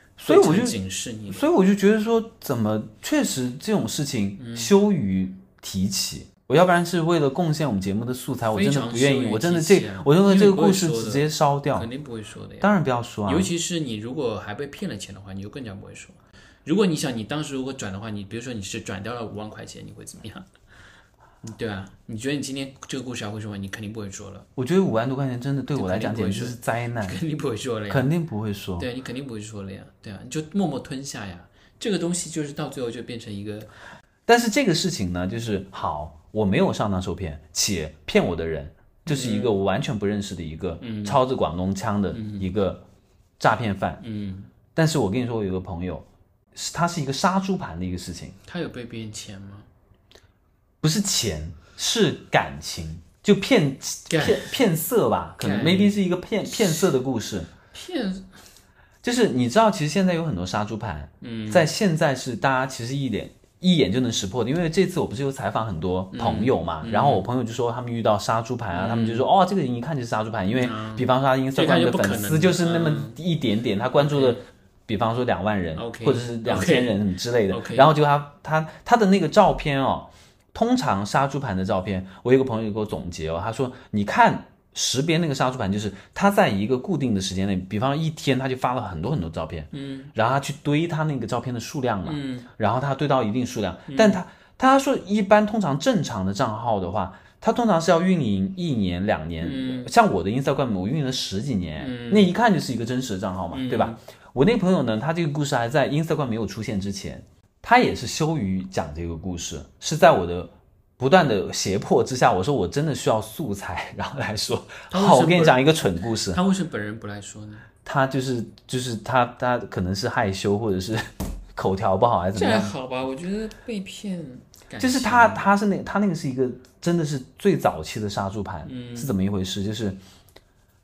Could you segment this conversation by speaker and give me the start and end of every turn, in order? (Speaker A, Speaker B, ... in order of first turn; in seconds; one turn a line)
Speaker A: 0.2-0.8
Speaker B: 0.2-1.5
Speaker A: 1.3-11.9
Speaker B: 4.4-4.7
Speaker B: 8.5-20.5
Speaker A: 12.6-13.5
Speaker B: 21.4-24.5
Speaker A: 24.6-27.2
Speaker B: 25.7-28.1
Speaker A: 27.9-28.9
Speaker B: 28.8-33.7
Speaker A: 34.3-42.8
Speaker B: 39.0-39.5
Speaker B: 40.8-41.2
Speaker B: 42.1-42.5
Speaker A: 43.4-44.0
Speaker B: 44.0-44.5
Speaker A: 44.7-48.4
Speaker B: 48.4-49.7
Speaker A: 50.8-57.5
Speaker B: 54.1-54.6
Speaker B: 55.4-55.9
Speaker B: 57.7-58.3
Speaker A: 59.0-116.4
Speaker B: 61.2-61.7
Speaker B: 66.1-67.3
Speaker B: 68.7-69.3
Speaker B: 70.5-73.2
Speaker B: 74.0-74.4
Speaker B: 75.7-77.9
Speaker B: 89.7-90.1
Speaker B: 92.0-92.5
Speaker B: 93.9-94.2
Speaker B: 99.4-99.9
Speaker B: 101.8-102.3
Speaker B: 103.5-104.0
Speaker B: 114.9-115.7
Speaker B: 116.3-117.7
Speaker A: 117.8-122.7
Speaker B: 122.3-125.5
Speaker A: 124.8-130.0
Speaker B: 128.6-129.1